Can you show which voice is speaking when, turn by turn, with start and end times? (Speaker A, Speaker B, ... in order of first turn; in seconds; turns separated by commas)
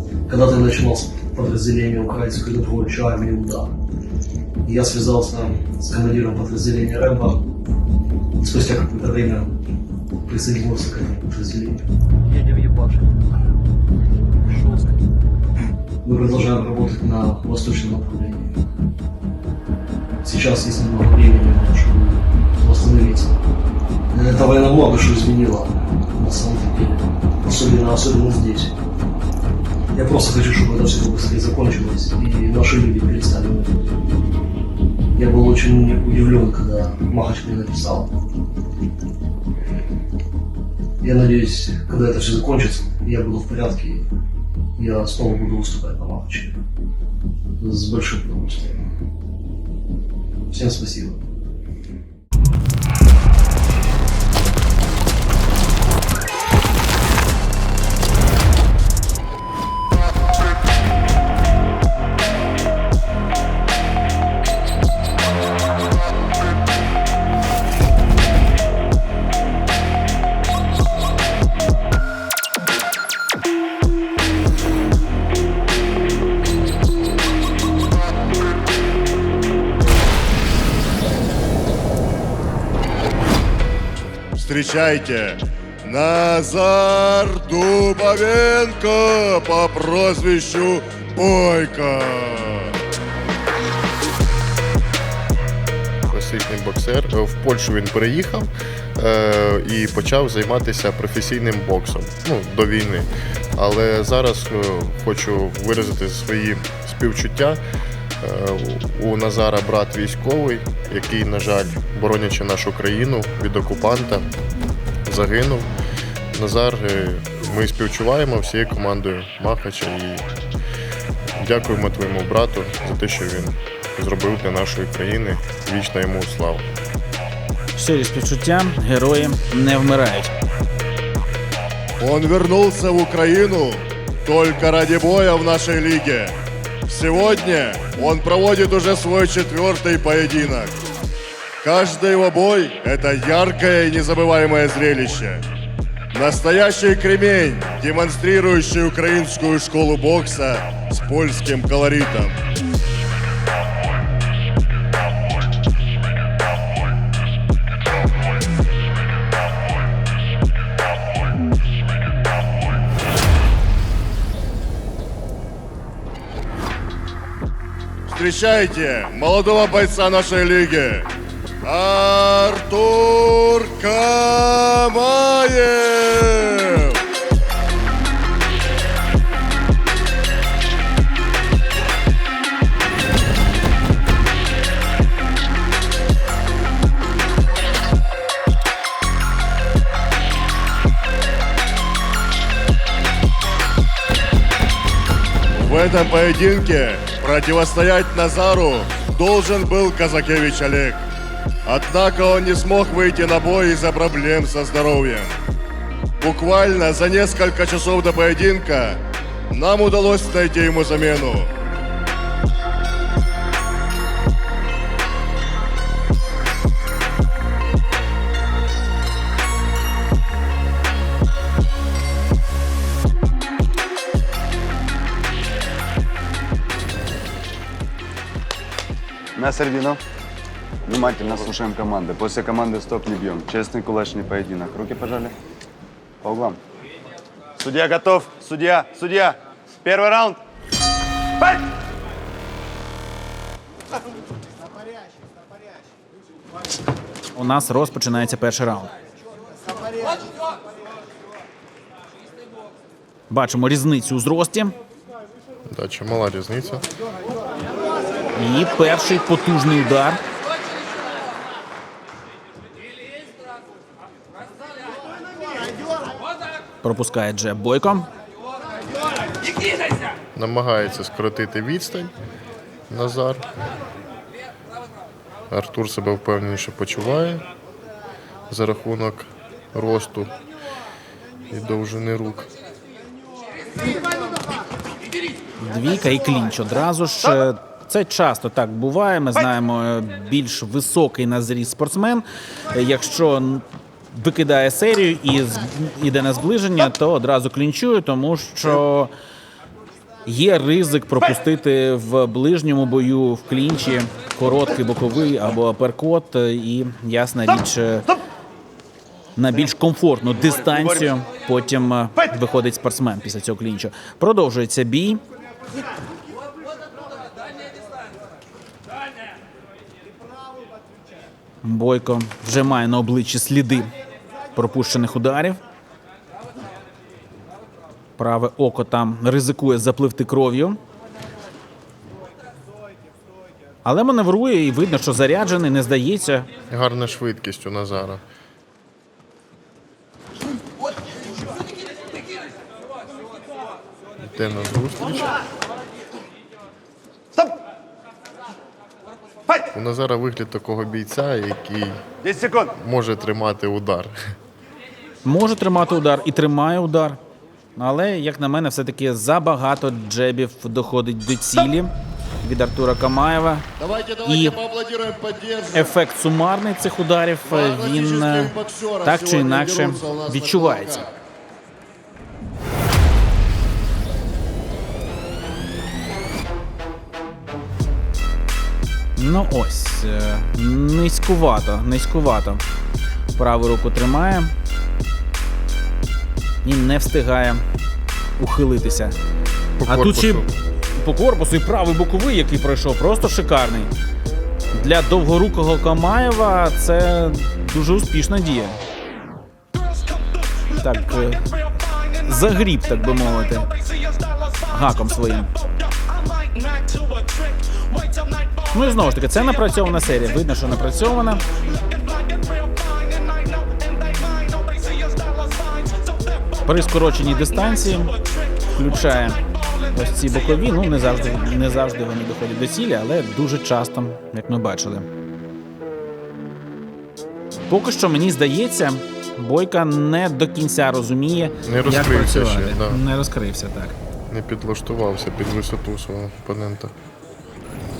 Speaker A: 0.3-3.7, Speaker A: 4.7-7.4, Speaker A: 8.4-9.5, Speaker A: 10.2-11.8, Speaker A: 16.1-18.6, Speaker A: 20.2-23.4, Speaker A: 24.1-28.7, Speaker A: 29.9-33.8, Speaker A: 35.1-38.1, Speaker A: 41.0-44.1, Speaker A: 44.8-46.6, Speaker A: 47.6-48.9, Speaker A: 50.5-51.2, Speaker B: 84.4-92.8, Speaker C: 96.1-107.6, Speaker C: 108.2-114.3, Speaker C: 115.1-115.7, Speaker C: 116.3-120.2, Speaker C: 121.4-126.7, Speaker D: 127.8-130.3, Speaker B: 132.0-136.3, Speaker B: 136.9-140.7, Speaker B: 141.6-145.4, Speaker B: 146.1-152.4, Speaker B: 168.1-171.1, Speaker B: 171.6-177.0, Speaker B: 195.5-201.0, Speaker B: 201.7-205.3, Speaker B: 206.2-209.0, Speaker B: 209.5-211.5, Speaker E: 229.4-230.0, Speaker E: 230.9-235.3, Speaker E: 236.2-236.6, Speaker E: 237.6-240.4, Speaker D: 247.3-248.9, Speaker D: 253.3-254.8, Speaker C: 255.7-256.9, Speaker D: 258.4-260.2, Speaker D: 266.8-268.1, Speaker C: 270.4-272.1, Speaker C: 272.9-273.5, Speaker C: 275.5-277.4, Speaker C: 278.5-280.3, Speaker C: 281.5-282.5, Speaker D: 285.6-299.1, Speaker D: 300.3-308.1, Speaker D: 309.4-315.2, Speaker D: 321.6-323.9, Speaker D: 324.6-325.6, Speaker D: 328.2-330.8, Speaker D: 333.9-336.5, Speaker C: 336.7-338.2, Speaker C: 344.2-345.4, Speaker C: 349.7-352.1, Speaker E: 352.2-352.7, Speaker C: 352.8-354.2, Speaker D: 355.2-357.2, Speaker D: 357.8-363.7, Speaker B: 363.8-365.9, Speaker D: 364.3-364.6, Speaker D: 365.7-368.5, Speaker B: 367.4-371.1, Speaker D: 369.1-371.0, Speaker D: 379.2-382.6, Speaker D: 383.4-384.5, Speaker D: 386.6-387.6, Speaker D: 388.4-389.2, Speaker C: 389.8-390.5, Speaker D: 389.9-393.9, Speaker D: 394.7-398.8, Speaker D: 400.8-401.4, Speaker D: 402.2-403.7, Speaker D: 404.7-405.5, Speaker D: 408.7-411.4, Speaker D: 416.6-418.1, Speaker D: 418.7-419.4, Speaker D: 419.9-425.1, Speaker D: 427.7-434.0, Speaker C: 431.6-433.0, Speaker C: 434.3-436.9